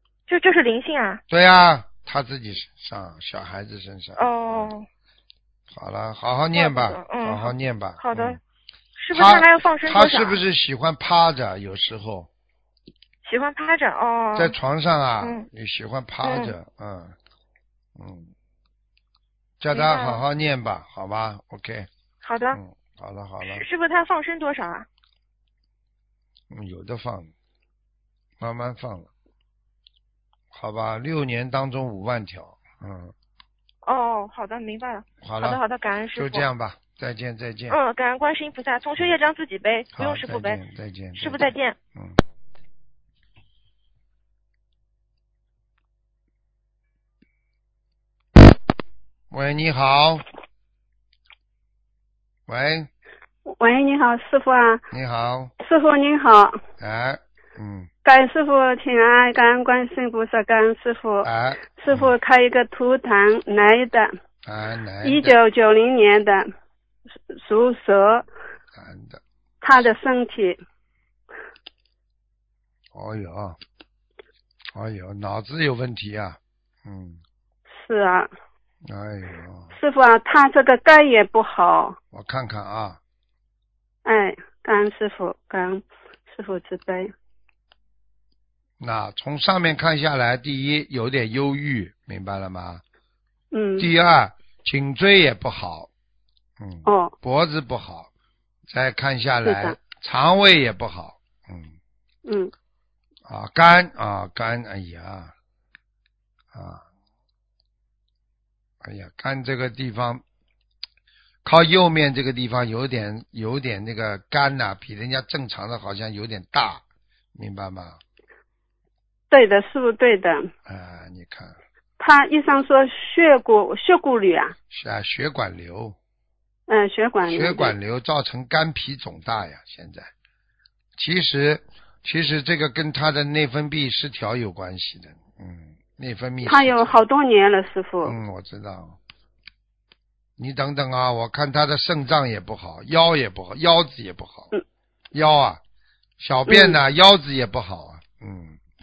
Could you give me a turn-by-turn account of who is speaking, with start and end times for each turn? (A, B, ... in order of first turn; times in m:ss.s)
0:00.3-0:01.2 A
0:01.3-0:04.7 B
0:04.2-0:04.9 A
0:05.7-0:08.4 B
0:06.5-0:08.4 A
0:09.0-0:10.4 A
0:09.1-0:12.3 B
0:13.2-0:14.6 A
0:14.4-0:17.1 B
0:15.2-0:15.5 A
0:16.2-0:16.5 A
0:18.0-0:18.3 B
0:19.6-0:21.9 B
0:19.7-0:20.2 A
0:22.2-0:22.6 A
0:22.5-0:23.6 B
0:23.4-0:24.9 A
0:26.5-0:27.3 B
0:28.4-0:29.1 B
0:30.5-0:33.1 B
0:33.8-0:36.5 A
0:35.2-0:35.6 B
0:36.1-0:37.8 B
0:37.7-0:40.6 A
0:40.0-0:42.2 B
0:41.2-0:41.8 A
0:49.3-0:50.2 B
0:52.5-0:52.9 B
0:53.5-0:54.8 C
0:54.9-0:55.5 B
0:55.6-0:56.6 C
0:56.8-0:57.9 B
0:58.0-1:04.1 C
1:01.2-1:02.1 B
1:04.4-1:05.4 B
1:05.0-1:06.5 C
1:07.3-1:08.3 C
1:08.8-1:09.2 B
1:09.6-1:10.6 C
1:12.9-1:13.6 B
1:14.7-1:17.2 B
1:17.8-1:18.3 C
1:18.9-1:19.7 B
1:19.7-1:22.0 C
1:22.1-1:23.0 B
1:24.0-1:27.1 C
1:28.8-1:32.8 B
1:33.5-1:33.9 C
1:33.8-1:35.9 B
1:36.6-1:38.1 B
1:36.8-1:37.1 C
1:38.7-1:41.7 B
1:39.4-1:39.8 C
1:42.3-1:42.5 C
1:43.3-1:45.3 B
1:46.5-1:46.8 B
1:48.8-1:50.2 B
1:51.4-1:56.8 B
1:57.4-1:58.0 B
1:59.3-2:00.5 C
2:00.7-2:01.6 B
2:02.0-2:04.6 C
2:04.7-2:06.0 B
2:06.7-2:07.7 C
2:07.3-2:10.1 B
2:11.0-2:17.0 B
2:16.4-2:18.1 C
2:18.0-2:19.0 B
2:20.4-2:24.5 B
2:25.1-2:25.6 B
2:26.2-2:28.6 B
2:26.5-2:26.8 C